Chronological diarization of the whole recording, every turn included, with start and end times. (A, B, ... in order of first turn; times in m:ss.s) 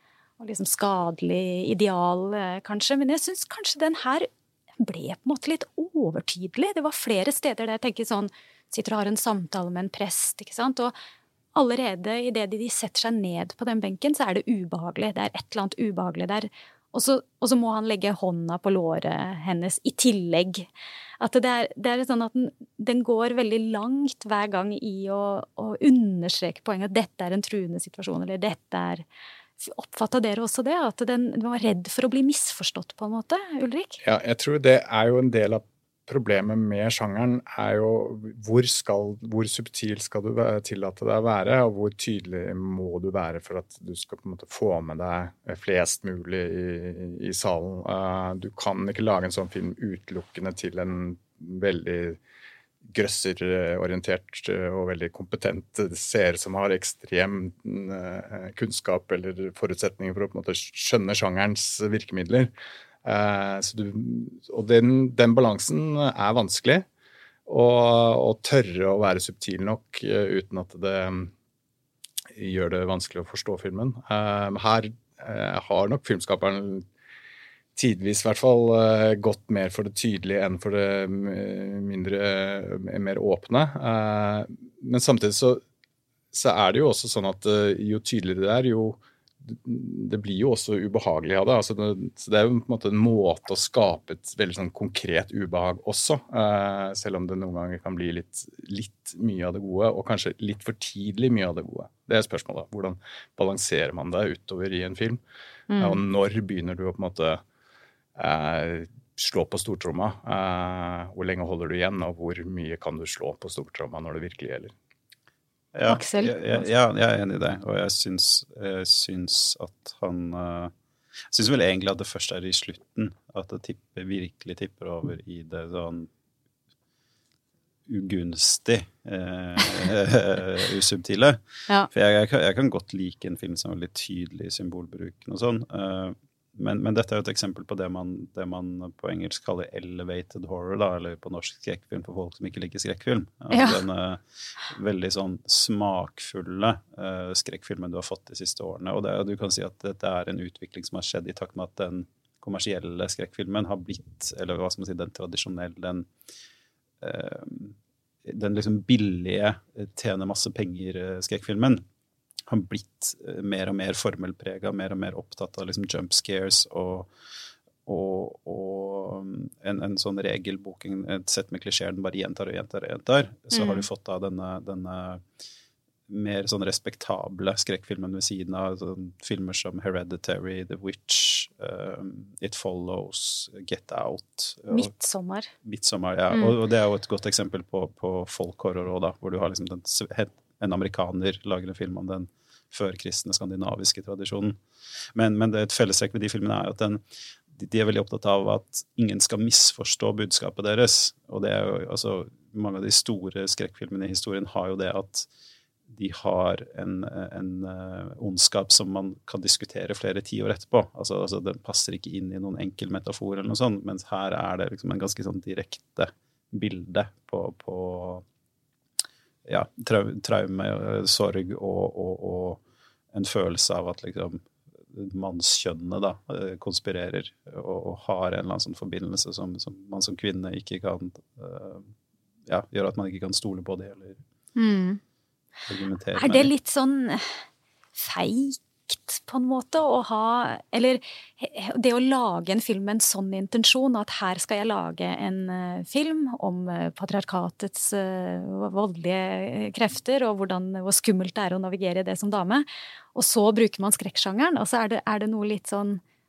0:00.4-0:04.3 A
0:04.8-0:10.9 A
0:11.5-0:20.7 A
0:21.2-0:29.0 A
0:29.6-0:34.0 A
0:34.0-0:52.2 B
0:52.8-1:02.5 B
1:03.0-1:06.8 B
1:07.4-1:11.3 B
1:12.3-1:16.8 B
1:17.8-1:25.6 B
1:26.3-1:45.2 B
1:45.7-1:46.0 A
1:45.8-1:47.4 B
1:48.2-1:54.7 B
1:55.7-2:00.7 C
1:55.9-1:56.7 A
2:01.3-2:06.1 C
2:07.9-2:11.4 C
2:11.9-2:36.1 C
2:23.5-2:23.8 A
2:37.0-2:41.8 C
2:42.5-2:47.1 C
2:47.8-2:55.2 C
2:53.5-2:53.8 A
2:56.1-3:04.9 C
3:04.7-3:05.5 A
3:05.6-3:14.6 C
3:15.1-3:17.0 C
3:17.5-3:25.3 C
3:25.9-3:38.2 C
3:39.4-3:42.6 C
3:43.1-3:51.9 C
3:52.5-3:54.2 C
3:54.6-3:55.0 A
3:55.7-3:56.5 C
3:56.2-3:57.4 A
3:57.9-4:16.0 A